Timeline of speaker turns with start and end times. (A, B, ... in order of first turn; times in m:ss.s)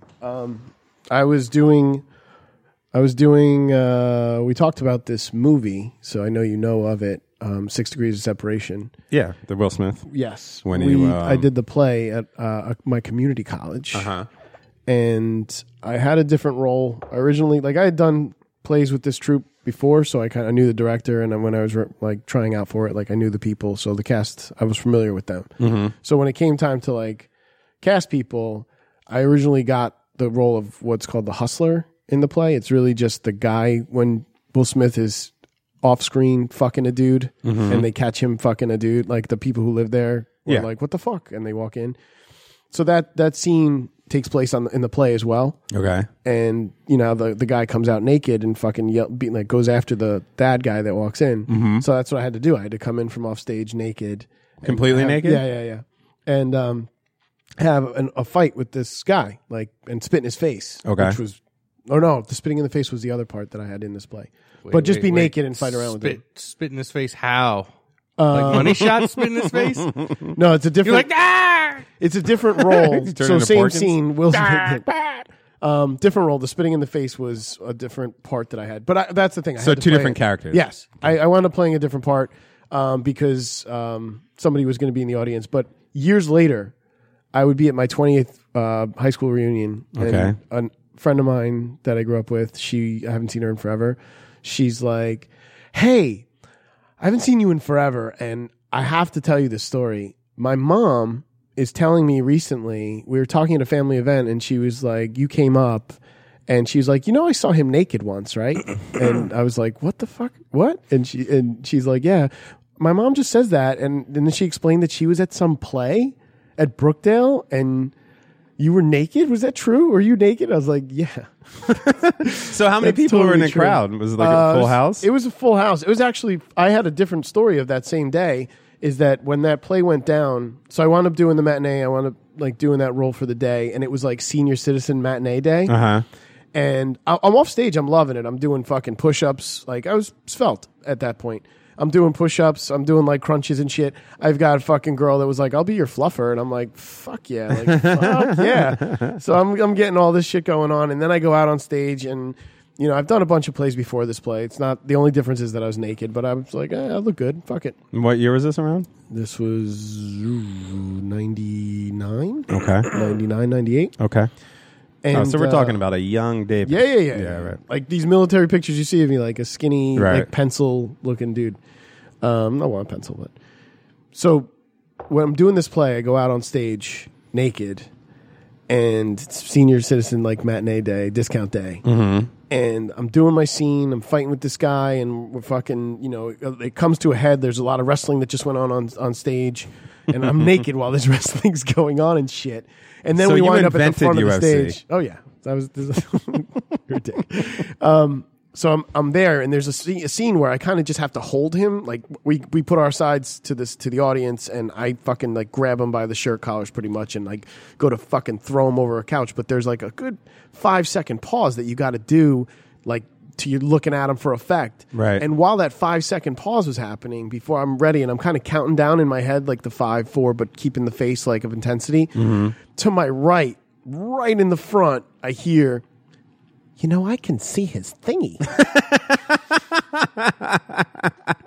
0:00.2-0:02.0 A
0:02.9-0:08.9 A
0:09.1-0:10.1 B
0:10.1-0:14.1 A
0:10.6-0:11.5 B
0:13.9-0:14.3 B
0:14.9-0:27.3 A
0:25.6-0:25.9 B
0:27.8-0:42.0 A
0:37.4-0:37.9 B
0:42.7-0:45.6 A
0:45.7-0:46.1 B
0:46.2-0:56.9 A
0:51.5-0:51.8 B
0:54.6-0:55.4 B
0:57.6-1:06.2 A
1:00.8-1:01.2 B
1:04.6-1:07.7 C
1:08.2-1:08.9 A
1:08.3-1:09.9 C
1:10.0-1:10.3 B
1:10.4-1:11.1 A
1:10.8-1:11.8 C
1:12.0-1:26.7 A
1:13.0-1:14.0 B
1:19.6-1:20.6 B
1:27.3-1:36.3 A
1:30.0-1:30.4 B
1:37.0-1:57.9 A
1:58.6-2:15.8 A
2:02.0-2:05.1 B
2:15.7-2:16.0 B
2:16.5-2:37.8 A
2:27.6-2:29.2 B
2:37.9-2:38.9 B
2:39.1-2:44.0 A
2:42.5-2:42.9 B
2:44.0-2:44.3 B
2:45.0-2:45.8 A
2:45.1-2:47.6 B
2:46.6-2:51.6 A
2:50.0-2:50.3 B
2:52.2-2:53.3 A
2:54.1-2:54.5 A
2:55.1-2:57.9 A
2:58.7-3:01.8 A
3:01.8-3:02.3 B
3:02.5-3:45.8 A
3:13.1-3:14.8 B
3:34.9-3:35.2 B
3:42.2-3:42.6 B
3:46.8-3:48.4 A
3:48.7-3:49.0 B
3:50.0-3:50.8 B